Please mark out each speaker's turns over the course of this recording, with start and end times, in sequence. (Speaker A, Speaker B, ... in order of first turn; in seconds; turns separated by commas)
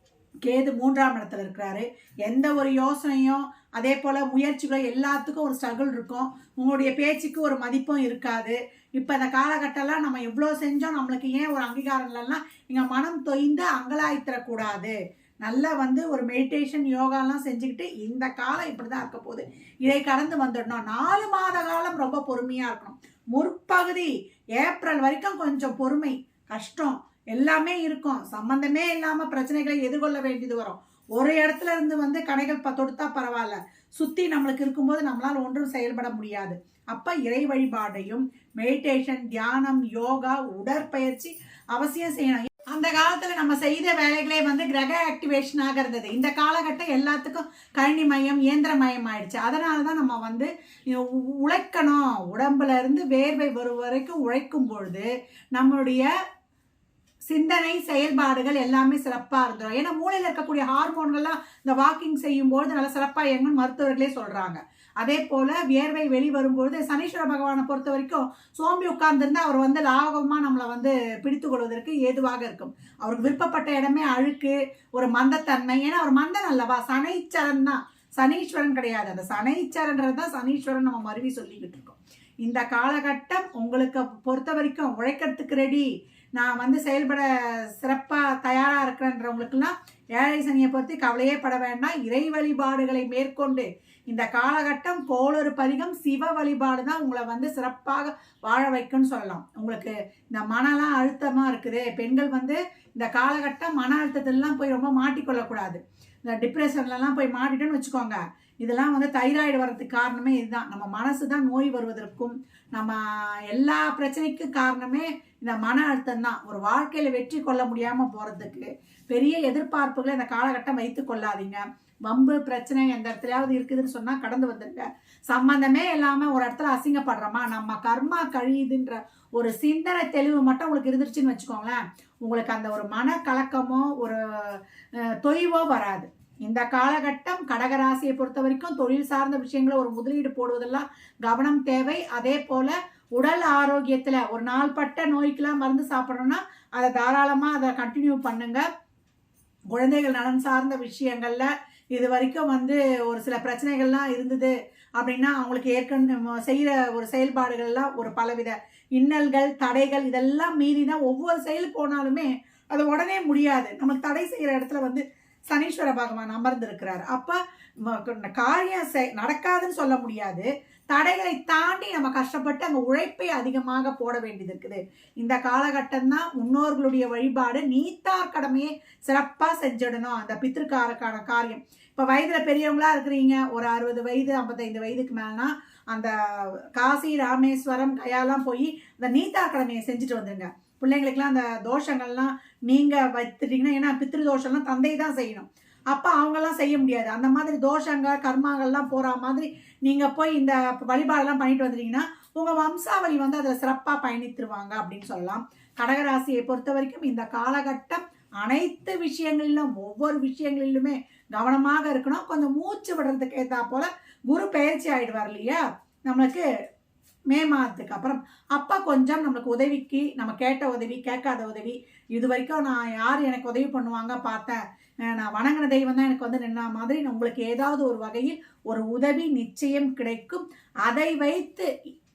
Speaker A: 0.5-56.1, Speaker A: 57.3-148.7, Speaker A: 149.7-216.5, Speaker A: 217.3-231.7